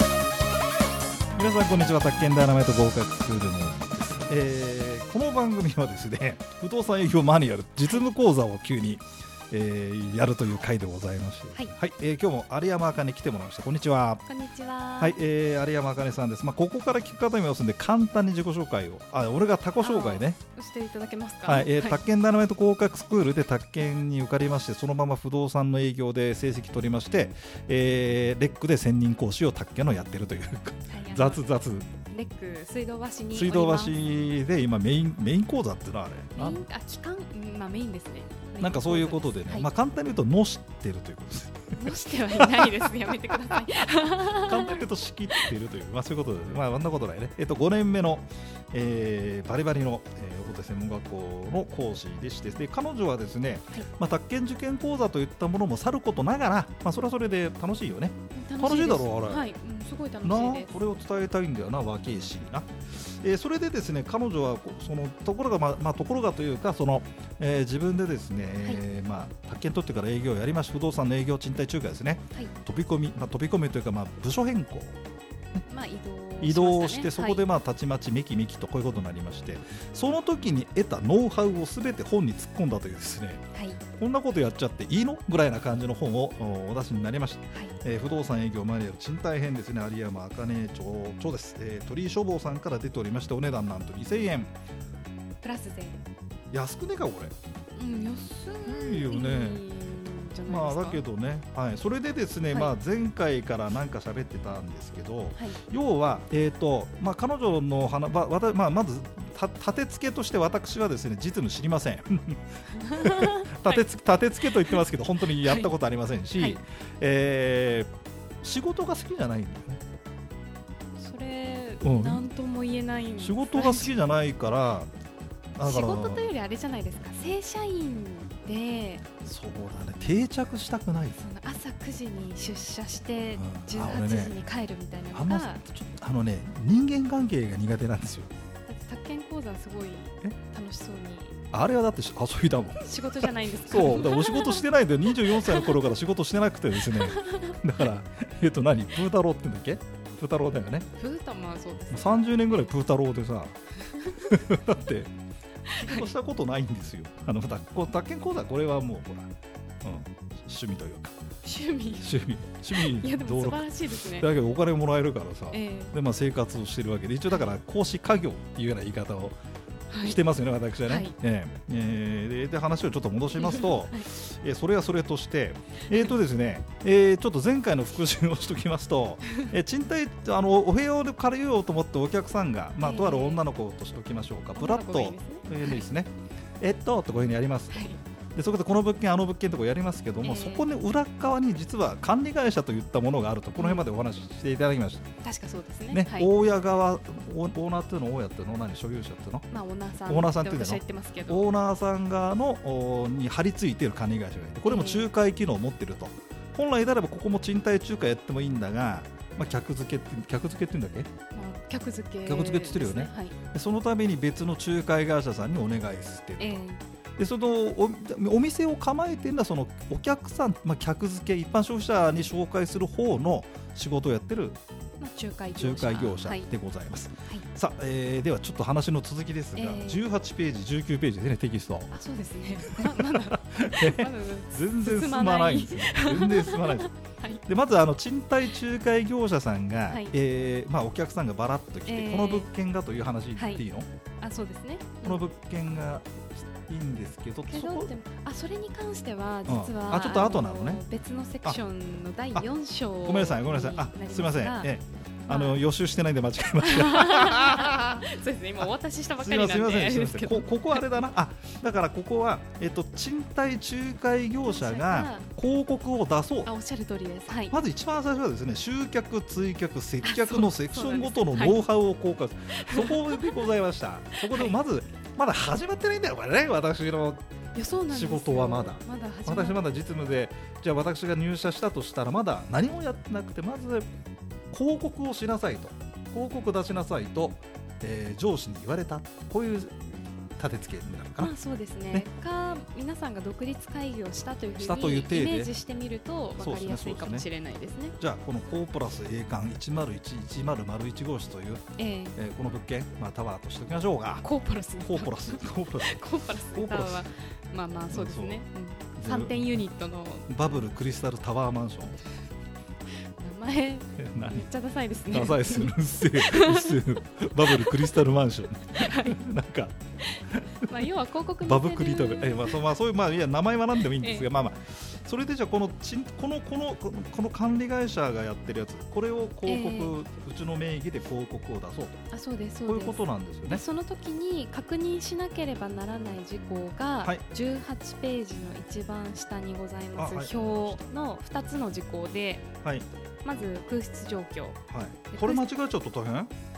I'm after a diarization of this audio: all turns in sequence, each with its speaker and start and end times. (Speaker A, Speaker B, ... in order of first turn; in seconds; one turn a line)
Speaker A: 1.4-14.2
Speaker B: 14.3-15.2
Speaker A: 15.0-20.4
Speaker B: 19.8-22.0
Speaker A: 21.5-31.9
Speaker B: 30.9-34.0
Speaker A: 33.3-36.6
Speaker B: 36.4-39.7
Speaker A: 38.6-43.5
Speaker B: 41.7-45.5
Speaker A: 44.2-59.5
Speaker B: 58.4-60.8
Speaker A: 60.2-75.0
Speaker B: 75.7-77.5
Speaker A: 76.4-83.4
Speaker B: 83.5-83.8
Speaker A: 84.0-94.5
Speaker B: 95.4-96.0
Speaker A: 96.5-97.3
Speaker B: 97.8-101.0
Speaker A: 98.7-99.6
Speaker A: 100.5-112.4
Speaker B: 112.7-113.8
Speaker A: 113.0-117.9
Speaker B: 114.5-114.8
Speaker B: 115.3-115.7
Speaker A: 118.4-119.8
Speaker B: 121.0-123.9
Speaker A: 121.8-122.2
Speaker A: 123.2-124.9
Speaker A: 125.6-126.3
Speaker B: 125.6-129.1
Speaker A: 129.2-131.2
Speaker B: 131.1-135.6
Speaker A: 133.4-134.4
Speaker A: 135.1-138.3
Speaker B: 138.7-141.4
Speaker A: 141.5-150.9
Speaker B: 142.8-145.7
Speaker B: 146.9-147.6
Speaker B: 151.0-152.7
Speaker A: 151.9-153.6
Speaker B: 153.9-154.2
Speaker A: 154.2-155.1
Speaker B: 155.7-156.1
Speaker A: 155.8-161.2
Speaker B: 161.4-162.1
Speaker A: 162.0-169.4
Speaker B: 162.7-164.3
Speaker B: 165.5-165.9
Speaker B: 167.3-167.6
Speaker B: 169.9-170.2
Speaker A: 170.0-195.1
Speaker B: 170.9-171.1
Speaker B: 173.3-174.1
Speaker B: 182.8-183.4
Speaker B: 184.6-185.8
Speaker B: 187.7-188.0
Speaker B: 190.2-190.7
Speaker B: 193.6-193.8
Speaker B: 195.2-196.3
Speaker A: 195.9-199.5
Speaker B: 199.5-201.5
Speaker A: 200.1-211.1
Speaker B: 204.7-205.1
Speaker B: 211.3-213.4
Speaker A: 212.3-216.6
Speaker B: 216.4-216.8
Speaker A: 217.2-224.6
Speaker B: 225.0-226.5
Speaker A: 225.5-231.9
Speaker B: 229.6-230.0
Speaker B: 231.9-237.4
Speaker A: 232.7-236.9
Speaker A: 237.5-243.9
Speaker B: 239.9-240.1
Speaker B: 241.9-242.5
Speaker B: 243.3-243.6
Speaker B: 244.2-245.2
Speaker A: 245.0-247.9
Speaker B: 247.5-254.7
Speaker A: 249.5-250.8
Speaker A: 253.1-258.1
Speaker B: 255.3-255.6
Speaker B: 256.6-260.9
Speaker A: 259.2-266.5
Speaker B: 264.4-265.3
Speaker B: 266.4-267.6
Speaker A: 267.5-277.2
Speaker B: 270.0-271.6
Speaker B: 272.6-273.4
Speaker B: 274.2-274.6
Speaker B: 277.6-279.6
Speaker A: 277.9-283.9
Speaker A: 284.5-289.9
Speaker A: 290.4-291.3
Speaker B: 291.2-298.0
Speaker A: 294.6-295.5
Speaker A: 296.4-297.3
Speaker A: 298.0-301.6
Speaker B: 301.8-302.2
Speaker A: 302.2-304.3
Speaker B: 304.2-310.6
Speaker A: 304.8-307.1
Speaker A: 307.9-308.4
Speaker A: 309.0-309.6
Speaker A: 310.3-312.0
Speaker B: 313.2-317.9
Speaker A: 314.0-314.5
Speaker A: 315.1-319.8
Speaker B: 318.7-319.2
Speaker B: 320.0-322.6
Speaker A: 320.3-320.9
Speaker A: 321.4-332.0
Speaker B: 323.8-324.3
Speaker B: 329.5-330.0
Speaker B: 332.1-342.5
Speaker A: 332.7-333.6
Speaker A: 340.0-340.9
Speaker B: 343.2-344.6
Speaker A: 344.7-346.3
Speaker B: 345.1-345.6